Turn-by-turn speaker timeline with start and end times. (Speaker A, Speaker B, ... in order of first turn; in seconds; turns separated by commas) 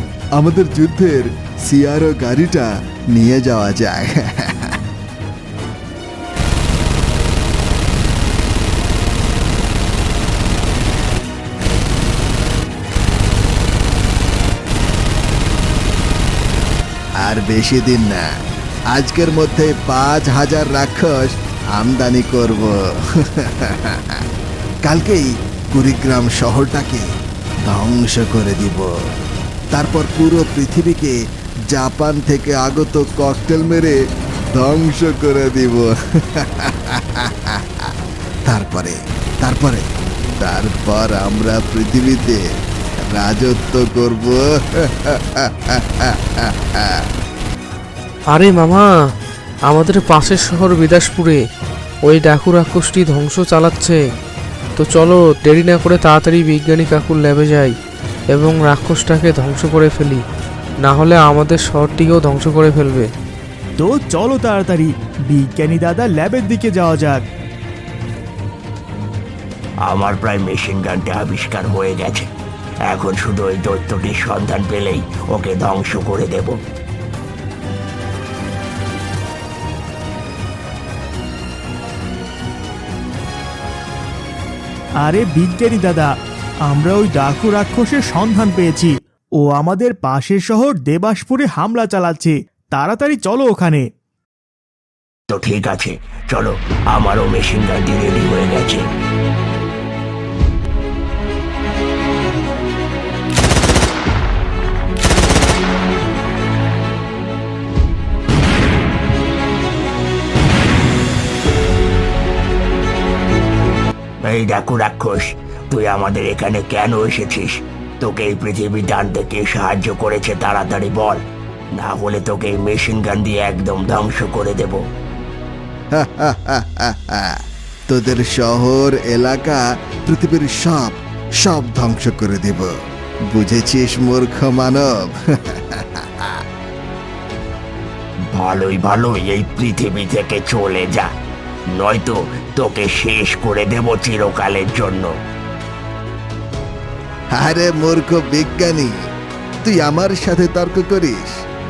Speaker A: 0.4-4.7, Speaker A: 17.2-18.2, Speaker A: 18.9-24.2, Speaker A: 24.9-27.1, Speaker A: 27.7-28.9, Speaker A: 29.7-31.1, Speaker A: 31.7-34.0, Speaker A: 34.5-37.9, Speaker A: 38.5-39.9, Speaker A: 40.4-42.4, Speaker A: 43.2-47.1, Speaker B: 48.3-48.9, Speaker B: 49.7-51.4, Speaker B: 52.1-54.0, Speaker B: 54.8-57.7, Speaker B: 58.3-60.2, Speaker B: 60.9-63.1, Speaker C: 63.8-67.2, Speaker D: 69.9-72.3, Speaker D: 72.9-76.6, Speaker C: 85.0-86.1, Speaker C: 86.7-93.8, Speaker D: 95.3-98.8, Speaker D: 114.2-121.2, Speaker D: 121.8-124.8, Speaker A: 125.9-127.3, Speaker A: 127.9-132.7, Speaker A: 133.3-136.4, Speaker D: 138.3-141.1, Speaker D: 141.8-145.1, Speaker A: 147.3-148.9, Speaker A: 149.6-151.3